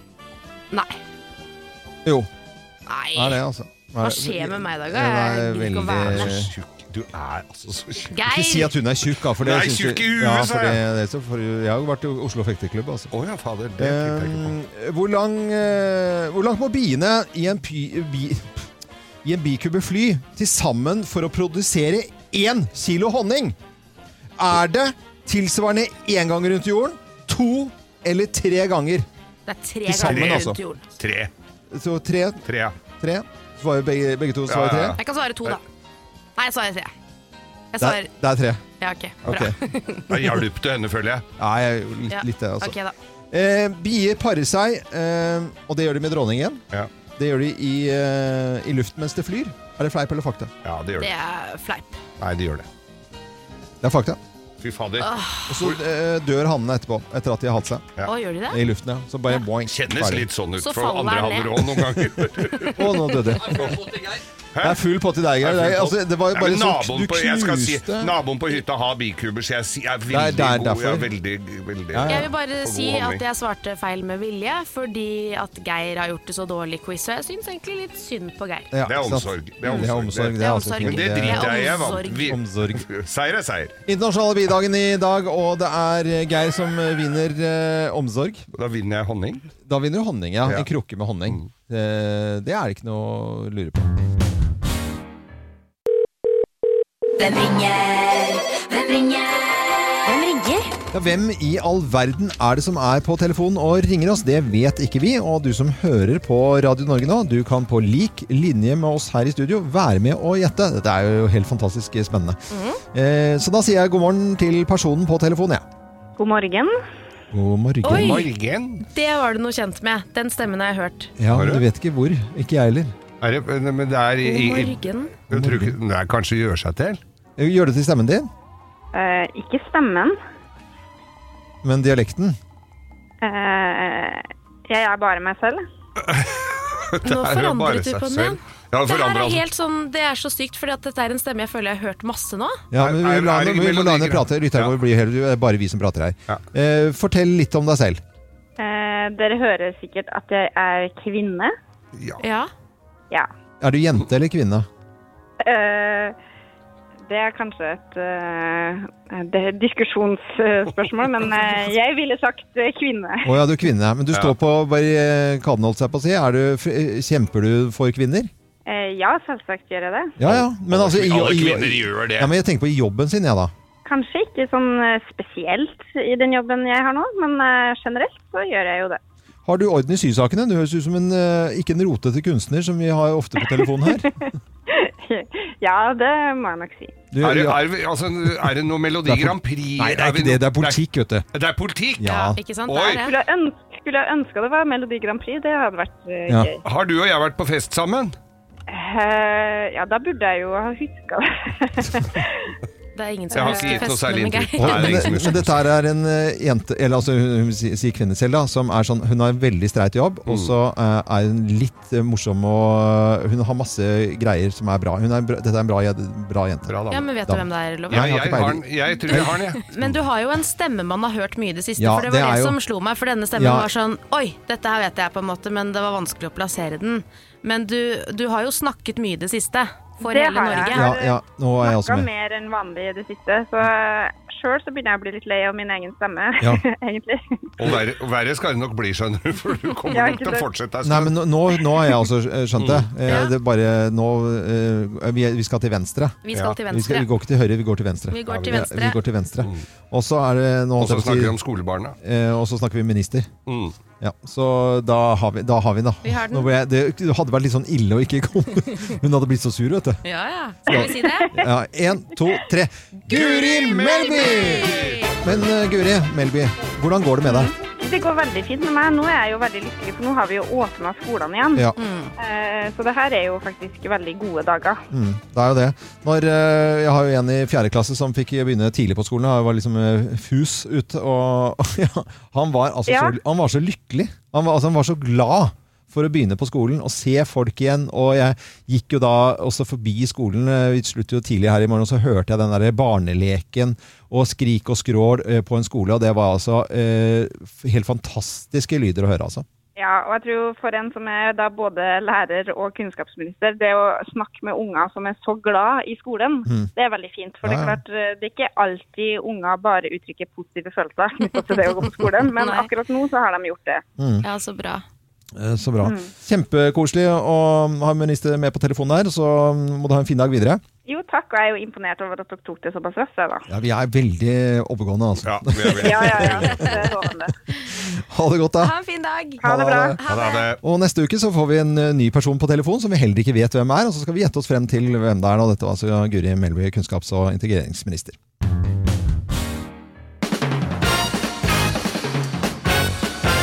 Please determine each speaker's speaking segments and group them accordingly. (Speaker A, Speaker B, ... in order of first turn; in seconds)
Speaker A: 0.7-1.0, 2.9-3.4, 4.0-6.4, 8.1-8.7, 29.5-30.8, 35.0-35.6, 36.4-36.9, 37.7-38.1, 38.8-40.1, 42.1-42.9, 51.0-52.0, 55.0-55.5, 58.0-58.6, 60.6-61.8, 72.1-78.7, 80.4-82.4, 100.1-100.5, 112.5-112.8, 117.8-118.2, 118.9-121.1, 124.2-125.1, 137.0-142.6, 152.2-152.5, 192.0-193.2, 202.9-205.1, 216.9-218.2, 219.1-230.9, 243.1-243.3, 246.2-247.1, 248.1-249.0, 256.0-256.5, 260.0-261.4, 263.9-265.1, 271.8-272.1, 312.3-312.7, 314.2-314.8, 328.6-330.5
Speaker B: 2.0-2.3, 3.1-6.5, 8.2-13.1, 13.8-18.7, 19.2-23.6, 24.4-29.1, 29.9-30.6, 31.7-35.0, 37.8-38.6, 39.2-39.5, 41.4-42.7, 43.3-46.6, 47.2-50.5, 53.8-54.2, 55.5-57.9, 58.5-60.3, 62.7-63.9, 64.6-68.1, 70.1-71.1, 71.9-72.3, 78.7-82.8, 83.8-88.5, 89.7-93.9, 100.9-112.4, 112.9-115.6, 117.3-118.2, 121.2-123.0, 125.3-125.8, 127.4-128.3, 131.6-132.4, 142.7-148.0, 153.6-154.7, 163.2-168.3, 170.2-173.5, 179.4-184.1, 187.1-187.7, 189.0-191.2, 192.0-192.4, 204.6-219.3, 221.8-222.6, 223.3-223.7, 230.7-232.1, 240.8-251.3, 252.0-253.3, 254.0-260.0, 260.7-267.5, 274.9-299.4, 307.4-307.8, 314.0-314.2, 315.3-320.6, 323.5-326.7, 327.7-328.7, 329.4-330.0, 330.6-338.2
Speaker C: 6.0-8.2, 9.4-10.8, 13.1-14.5, 30.0-31.3, 32.5-32.7, 34.5-35.5, 40.1-41.2, 50.6-51.1, 52.2-52.6, 54.6-55.1, 59.7-62.8, 63.5-64.8, 65.4-73.2, 78.8-83.7, 88.5-89.5, 117.8-118.8, 121.3-121.6, 123.2-127.0, 136.0-139.4, 142.8-144.7, 151.9-152.2, 170.2-172.3, 187.2-190.8, 191.3-192.1, 192.7-193.1, 196.6-198.2, 203.3-205.7, 210.3-210.5, 216.7-217.1, 217.9-220.0, 237.6-241.1, 242.6-242.9, 248.3-248.6, 250.8-251.9, 253.4-253.8, 263.1-265.4, 325.2-326.7, 330.1-330.6
Speaker D: 97.2-100.5
Speaker E: 116.2-116.8, 128.9-130.2, 133.2-135.7, 148.6-151.5, 155.4-156.1, 157.1-163.3, 168.7-170.1, 173.8-179.0, 183.4-186.9, 193.0-196.6, 198.7-202.5, 230.0-237.4, 239.9-240.5, 267.2-271.6, 272.2-274.8, 282.9-283.1, 299.8-313.8, 315.8-316.1, 320.9-323.4, 325.8-327.3, 329.4-330.0